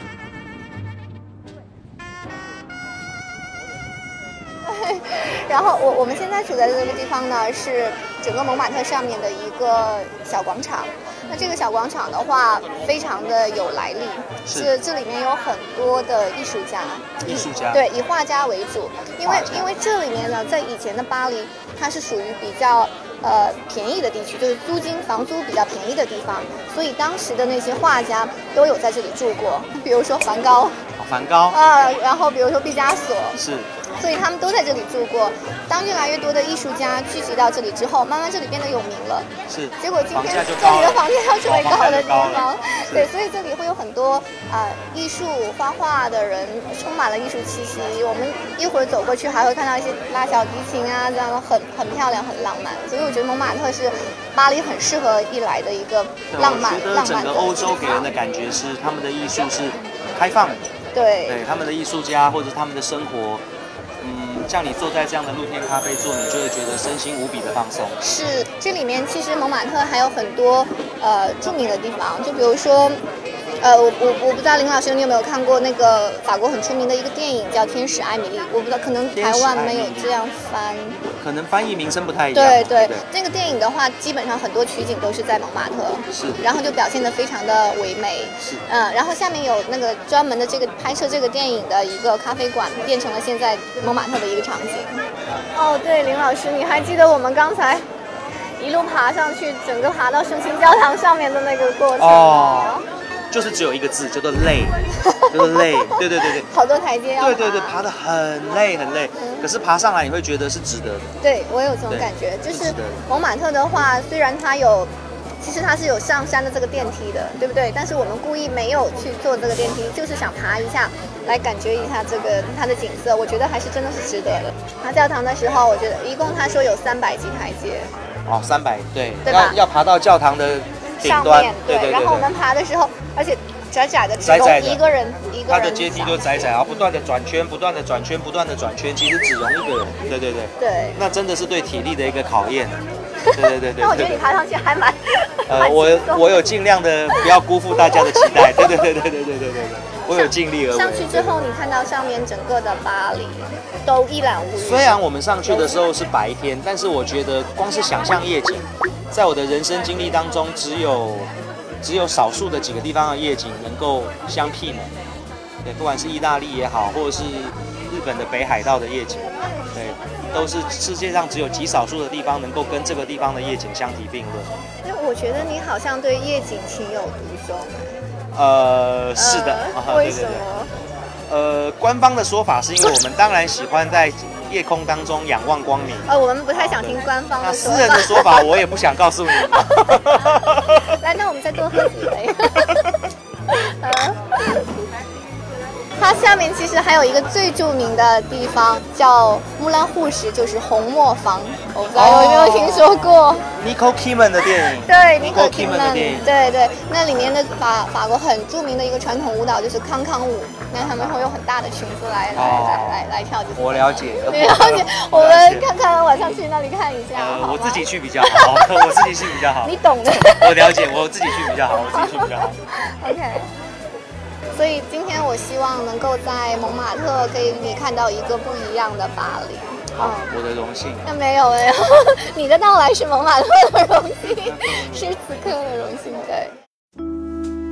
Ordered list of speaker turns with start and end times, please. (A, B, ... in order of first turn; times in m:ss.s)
0:04.6-0:30.8 A
0:14.5-0:14.7 B
0:17.2-0:17.8 B
0:19.2-0:19.7 B
0:31.0-0:31.6 B
0:31.5-0:33.4 A
0:33.4-0:33.7 B
0:34.0-0:58.1 A
0:39.5-0:43.1 B
0:56.3-1:00.6 B
1:00.9-1:01.4 A
1:01.2-1:03.4 B
1:04.0-1:08.0 B
1:08.0-1:13.0 A
1:13.6-1:21.0 A
1:19.1-1:20.2 B
1:21.2-1:23.0 B
1:22.3-1:35.0 A
1:26.1-1:26.4 B
1:35.5-1:37.8 A
1:38.6-1:42.8 A
1:42.0-1:42.8 B
1:43.3-1:44.8 B
1:45.0-1:47.8 A
1:45.3-1:46.5 B
1:47.2-1:51.1 B
1:49.2-1:49.5 A
1:51.2-2:07.9 A
1:51.9-1:53.0 B
2:08.2-2:12.3 B
2:09.2-2:09.6 A
2:11.0-2:16.5 A
2:14.2-2:14.8 B
2:15.5-2:22.8 B
2:20.6-2:21.0 A
2:23.2-2:26.5 A
2:23.3-2:24.2 B
2:25.5-2:31.4 B
2:27.2-2:28.7 A
2:30.1-2:35.7 A
2:34.6-2:41.3 B
2:41.8-2:44.9 B
2:45.6-2:54.5 B
2:54.8-2:58.0 A
2:58.3-3:00.4 B
2:59.2-3:00.7 A
3:01.3-3:11.0 B
3:06.1-3:08.5 A
3:09.4-3:12.9 A
3:13.5-3:14.6 A
3:16.0-3:23.5 A
3:21.9-3:26.3 B
3:24.4-3:43.5 A
3:30.8-3:31.2 B
3:32.3-3:35.7 B
3:37.1-3:42.5 B
3:44.5-3:50.3 A
3:49.9-3:51.1 B
3:51.0-3:56.5 A
3:54.3-3:55.2 B